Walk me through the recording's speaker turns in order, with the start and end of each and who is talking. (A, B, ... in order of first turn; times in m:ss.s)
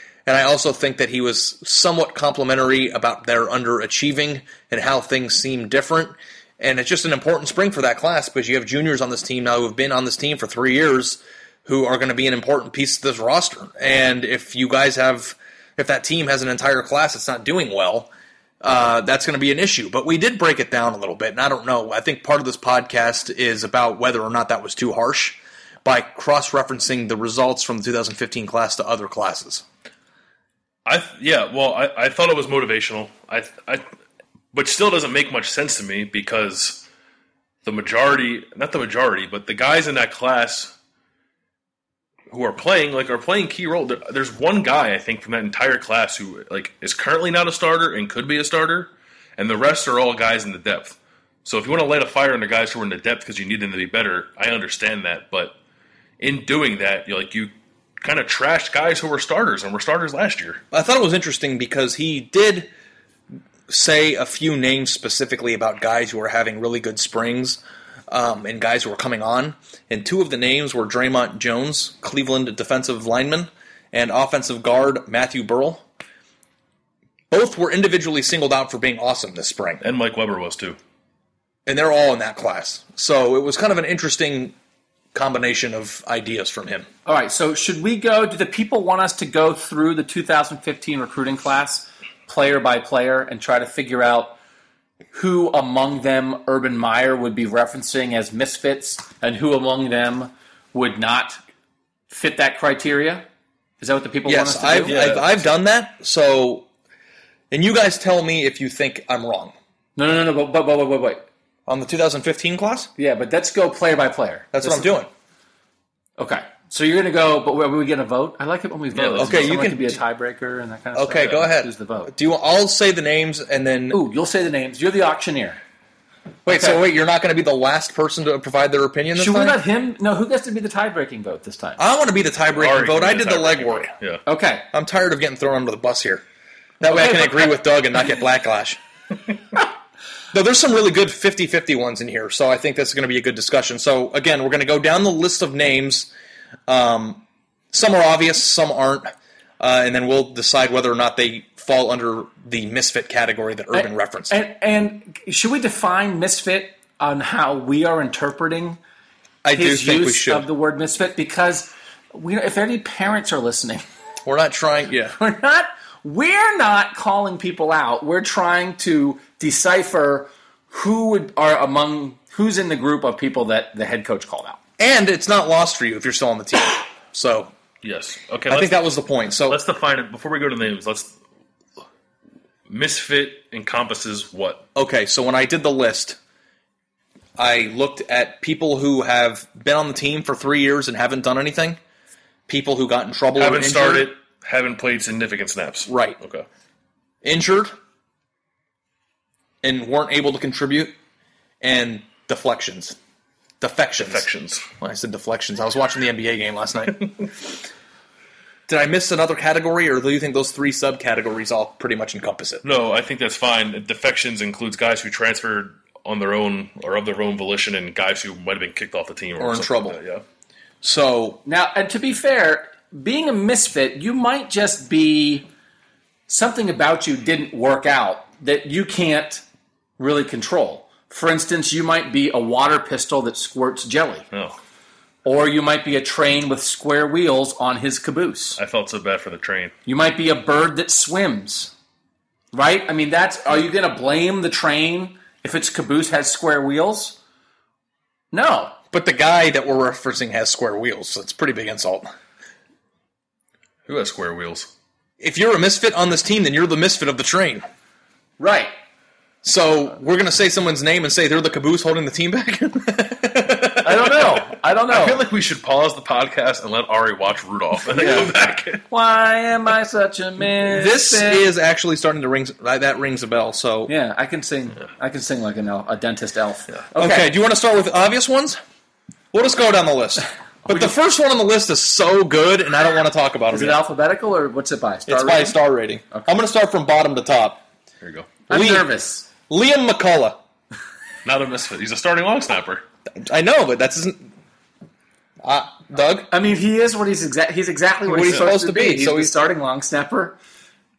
0:00.3-0:18.1 A
0:18.6-0:29.6 A
0:30.9-0:33.8 B
0:34.5-0:36.8 B
0:37.6-0:40.7 B
0:42.3-0:55.6 B
0:56.2-1:00.6 B
1:00.7-1:02.7 A
1:03.7-1:07.6 A
1:08.1-1:15.8 A
1:17.3-1:19.8 A
1:19.8-1:20.8 B
1:21.7-1:24.6 A
1:25.1-1:26.9 A
1:27.1-1:34.4 C
1:35.1-1:41.4 C
1:42.1-1:43.3 C
1:43.8-1:45.0 C
1:44.3-1:46.7 A
1:44.8-1:45.3 B
1:47.5-1:49.6 A
1:50.0-1:51.3 C
1:51.7-1:52.9 A
1:53.0-1:54.9 C
1:54.5-1:55.1 A
1:56.2-2:02.1 C
1:58.9-1:59.6 B
1:59.2-2:00.0 A
2:01.0-2:04.0 A
2:03.9-2:05.6 C
2:06.4-2:09.6 A
2:06.5-2:06.8 C
2:09.1-2:11.8 C
2:11.8-2:13.9 A
2:12.5-2:14.2 B
2:14.3-2:14.7 C
2:14.7-2:16.2 A
2:16.8-2:18.8 A
2:20.3-2:26.1 A
2:26.7-2:34.4 A
2:33.7-2:38.8 C
2:39.4-2:40.5 A
2:39.6-2:43.8 C
2:44.2-2:45.2 A
2:45.2-2:54.6 C
2:54.8-2:57.5 A
2:57.8-2:58.9 B
2:58.5-2:59.6 A
2:59.5-3:01.2 B
3:02.7-3:04.6 B
3:04.8-3:06.2 A
3:07.4-3:11.8 A
3:12.5-3:14.1 A
3:13.4-3:16.5 B
3:15.9-3:16.2 A
3:17.2-3:17.7 A
3:19.6-3:21.0 A
3:21.6-3:23.0 A
3:23.6-3:24.3 A
3:24.0-3:24.7 B
3:24.8-3:27.3 A
3:28.7-3:32.6 A
3:32.6-3:40.2 B
3:39.4-3:40.0 A
3:40.8-3:41.4 A
3:41.5-3:45.5 C
3:46.3-3:49.4 C
3:50.0-3:54.3 C
3:55.2-3:58.6 C
3:58.6-3:59.8 B
3:59.9-4:01.7 C
4:02.5-4:07.2 C
4:08.3-4:08.8 C
4:08.9-4:12.1 A
4:13.9-4:14.7 B
4:15.2-4:17.6 A
4:18.4-4:18.7 C
4:19.4-4:24.2 A
4:23.8-4:25.2 C
4:24.9-4:28.8 B
4:27.9-4:28.3 C
4:28.9-4:31.4 C
4:30.7-4:33.9 A
4:33.9-4:37.3 C
4:37.0-4:38.6 A
4:39.3-4:43.8 A
4:40.6-4:41.0 C
4:43.5-4:45.6 C
4:45.1-4:47.6 A
4:48.0-4:48.3 B
4:48.5-4:49.3 C
4:48.5-4:48.9 A
4:49.5-4:50.4 A
4:51.2-4:52.8 B
4:53.2-4:54.3 A
4:55.4-4:56.3 A
4:56.3-5:00.4 C
4:58.1-4:59.4 A